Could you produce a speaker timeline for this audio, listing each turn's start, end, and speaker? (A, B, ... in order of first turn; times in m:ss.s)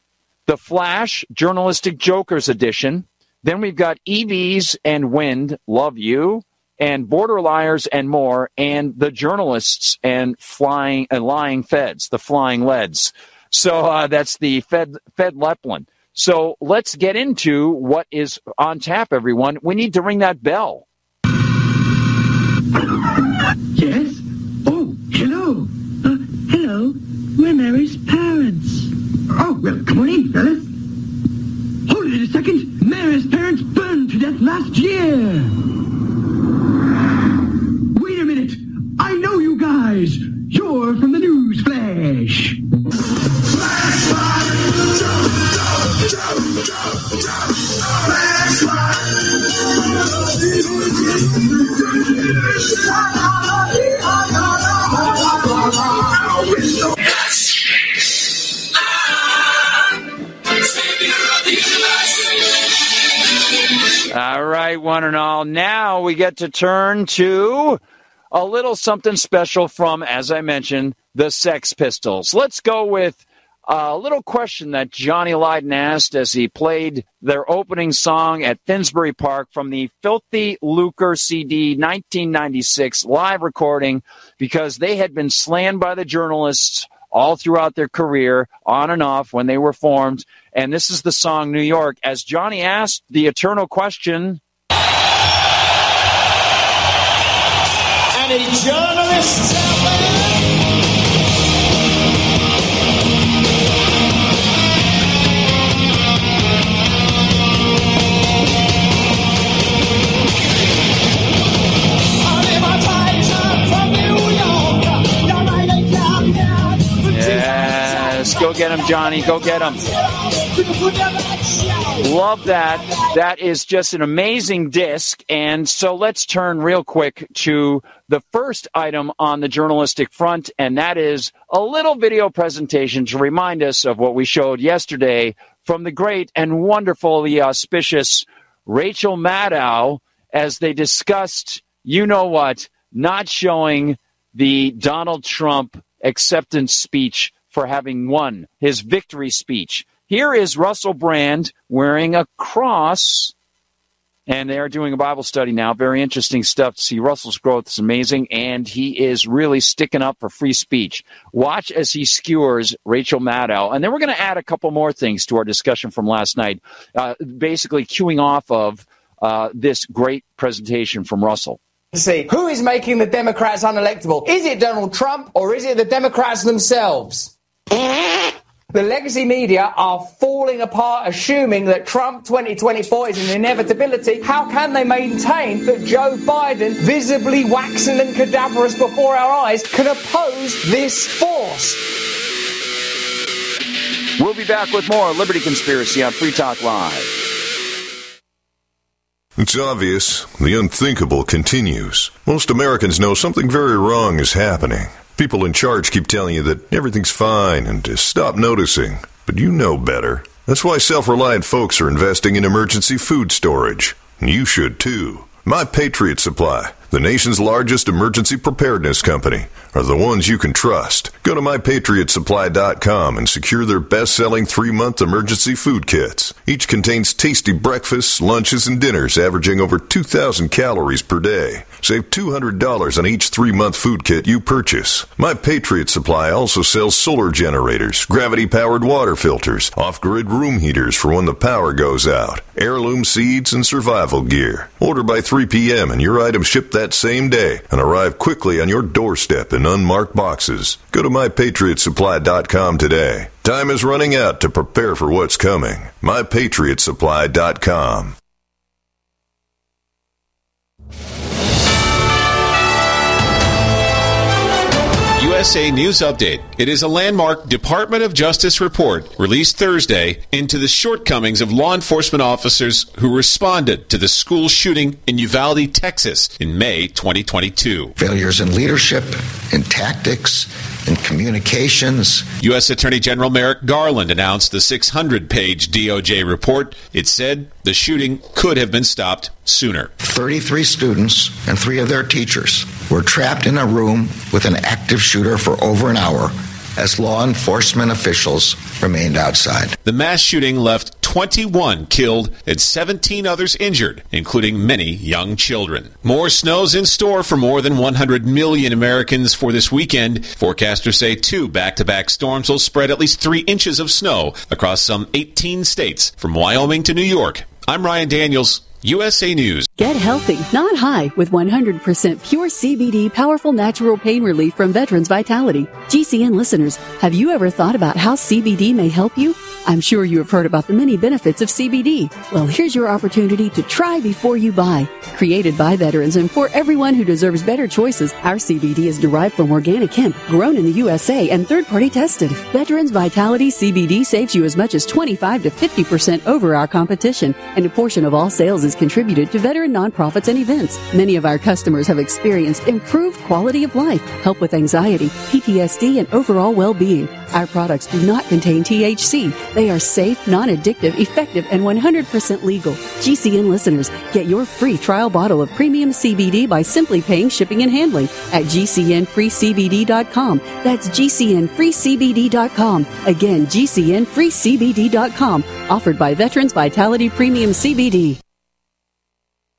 0:00.5-0:20.8 A
0:23.7-0:30.7 B
0:31.9-0:35.6 B
0:37.9-0:42.6 B
1:04.1-1:07.8 A
1:08.3-1:34.4 A
1:38.2-1:40.1 C
1:52.2-2:02.0 C
1:57.1-1:59.8 A
2:02.0-2:33.3 A
2:34.3-2:51.6 A
2:51.9-2:57.3 C
2:58.7-3:11.8 C
3:14.2-3:17.1 A
3:19.4-4:18.2 D
4:25.2-4:37.9 E
4:38.0-4:42.3 F
4:42.4-4:49.9 E
4:50.0-4:59.8 F
4:59.8-5:19.7 E
5:19.8-6:18.2 G